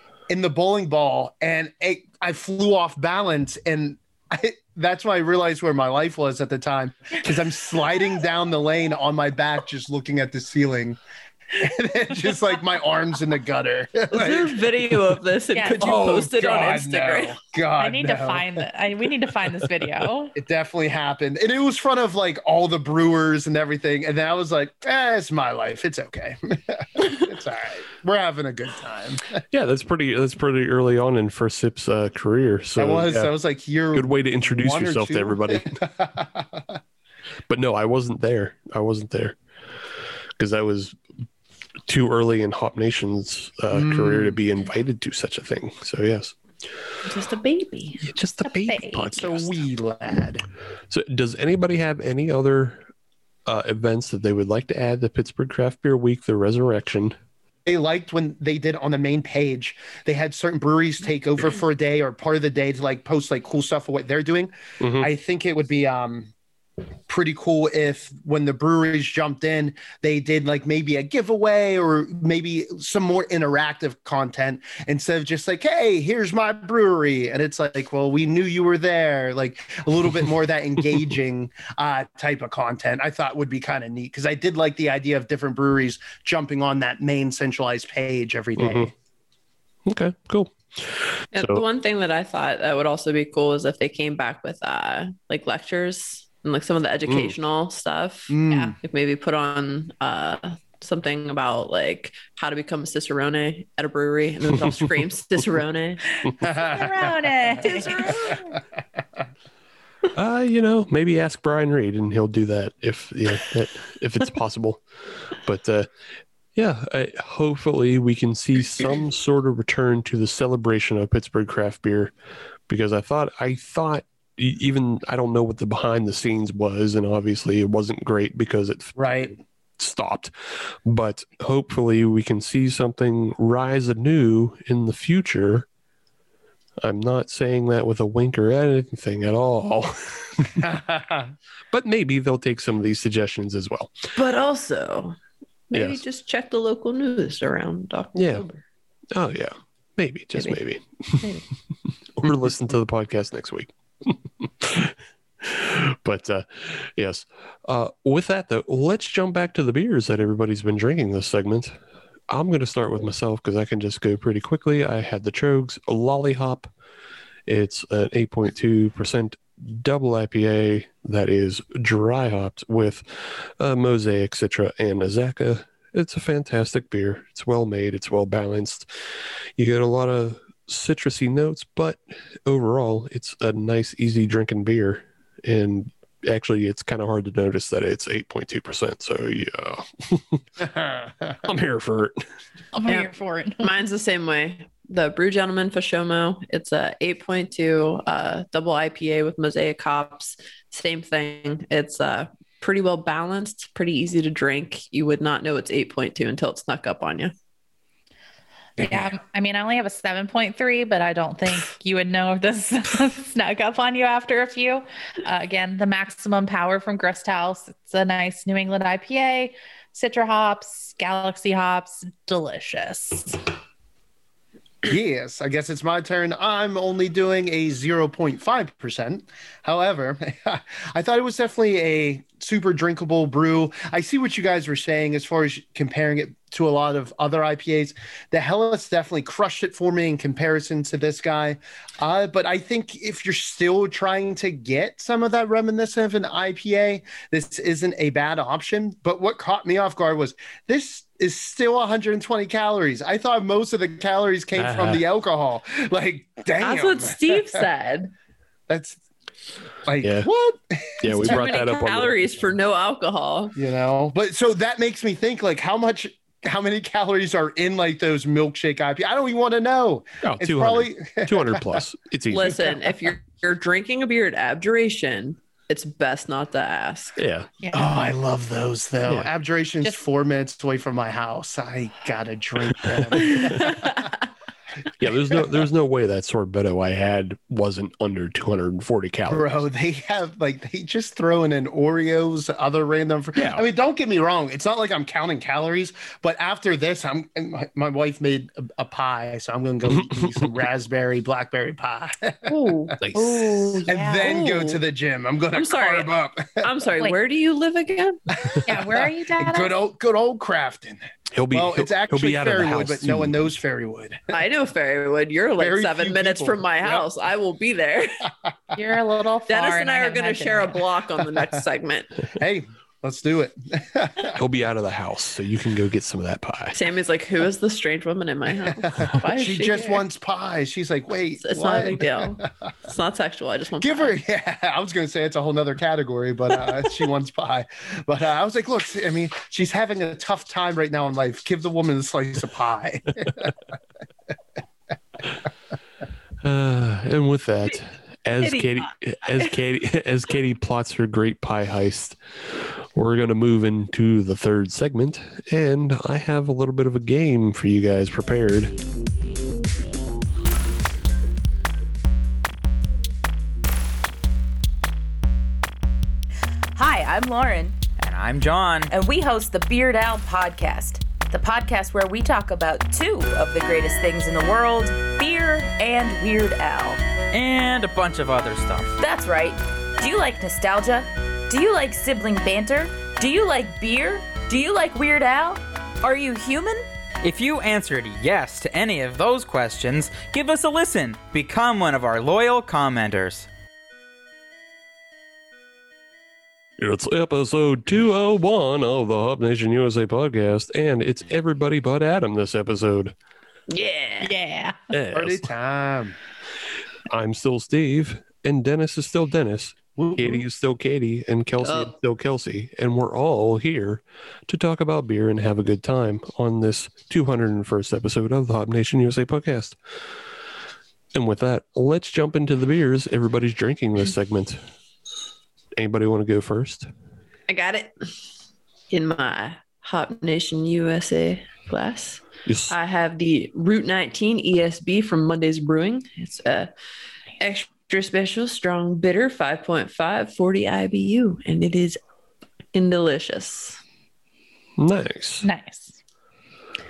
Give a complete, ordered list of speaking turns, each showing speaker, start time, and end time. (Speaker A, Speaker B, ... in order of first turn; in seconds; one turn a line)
Speaker A: 0.3-11.0
Speaker A: 11.5-14.6
Speaker B: 14.1-17.4
Speaker C: 15.5-15.9
Speaker A: 15.8-18.6
Speaker C: 17.8-20.3
Speaker A: 20.3-29.3
Speaker D: 29.5-33.3
Speaker A: 32.8-36.8
Speaker D: 33.9-35.8
Speaker D: 37.5-39.4
Speaker D: 40.4-41.0
Speaker D: 41.9-46.3
Speaker A: 43.7-44.4
Speaker B: 47.0-48.0
Speaker D: 48.0-49.6
Speaker C: 48.4-49.1
Speaker A: 49.1-50.4
Speaker D: 50.9-52.8
Speaker D: 53.5-57.1
Speaker A: 57.6-66.3
Speaker D: 64.8-65.1
Speaker A: 67.1-88.9
Speaker D: 88.6-88.9
Speaker D: 89.8-91.6
Speaker B: 91.3-106.0
Speaker D: 97.0-97.3
Speaker A: 98.3-98.8
Speaker C: 98.5-98.8
Speaker C: 106.2-108.4
Speaker A: 106.4-107.1
Speaker B: 107.6-108.3
Speaker A: 107.6-108.4
Speaker D: 110.1-114.8
Speaker D: 115.3-115.9
Speaker D: 116.5-122.1
Speaker D: 122.7-135.7
Speaker A: 129.0-129.3
Speaker D: 136.8-140.7
Speaker A: 140.6-141.3
Speaker D: 141.7-143.9
Speaker B: 144.2-145.2
Speaker B: 145.7-148.6
Speaker D: 145.7-146.0
Speaker D: 148.1-148.4
Speaker D: 149.1-151.2
Speaker D: 152.2-161.7
Speaker D: 162.3-166.7
Speaker D: 167.5-178.9
Speaker D: 179.6-190.4
Speaker A: 190.6-191.3
Speaker D: 191.4-192.2
Speaker C: 192.7-193.7
Speaker B: 192.9-207.3
Speaker C: 208.8-223.4
Speaker A: 208.8-209.1
Speaker A: 224.8-257.6
Speaker D: 254.6-255.0
Speaker B: 256.6-258.1
Speaker A: 258.7-259.0
Speaker A: 259.8-261.4
Speaker D: 260.0-260.3
Speaker D: 261.0-262.3
Speaker B: 261.2-263.5
Speaker A: 263.6-271.8
Speaker D: 270.2-272.6
Speaker B: 272.3-277.2
Speaker D: 277.2-277.5
Speaker C: 277.6-278.0
Speaker A: 277.7-283.9
Speaker B: 283.2-284.1
Speaker D: 285.0-289.5
Speaker A: 289.3-302.9
Speaker D: 293.4-293.6
Speaker D: 299.9-300.5
Speaker B: 302.5-302.9
Speaker D: 303.0-303.4
Speaker C: 303.1-304.4
Speaker A: 303.9-306.7
Speaker B: 304.2-304.8
Speaker B: 305.5-308.2
Speaker A: 308.3-314.2
Speaker C: 308.6-309.8
Speaker D: 311.3-313.5
Speaker B: 314.3-318.2
Speaker A: 315.6-317.0
Speaker C: 318.7-320.8
Speaker B: 319.5-322.1
Speaker A: 322.4-324.4
Speaker D: 324.3-326.8
Speaker B: 326.7-330.0
Speaker A: 328.8-332.5
Speaker B: 331.4-334.1
Speaker A: 333.8-343.5
Speaker D: 346.4-358.7
Speaker E: 366.8-367.8
Speaker F: 368.0-368.9
Speaker E: 368.9-377.0
Speaker F: 377.3-378.9
Speaker E: 379.0-386.8
Speaker F: 387.2-393.5
Speaker D: 396.8-403.1
Speaker B: 403.7-404.3
Speaker C: 404.2-404.8
Speaker D: 404.9-405.5
Speaker A: 405.1-406.2
Speaker D: 407.1-419.8
Speaker A: 410.0-410.4
Speaker B: 411.6-411.9
Speaker D: 421.1-424.6
Speaker D: 425.8-426.9
Speaker B: 427.5-428.1
Speaker B: 428.9-436.7
Speaker D: 432.4-432.7
Speaker B: 437.4-442.0
Speaker B: 442.7-443.8
Speaker D: 444.8-445.5
Speaker C: 445.4-446.0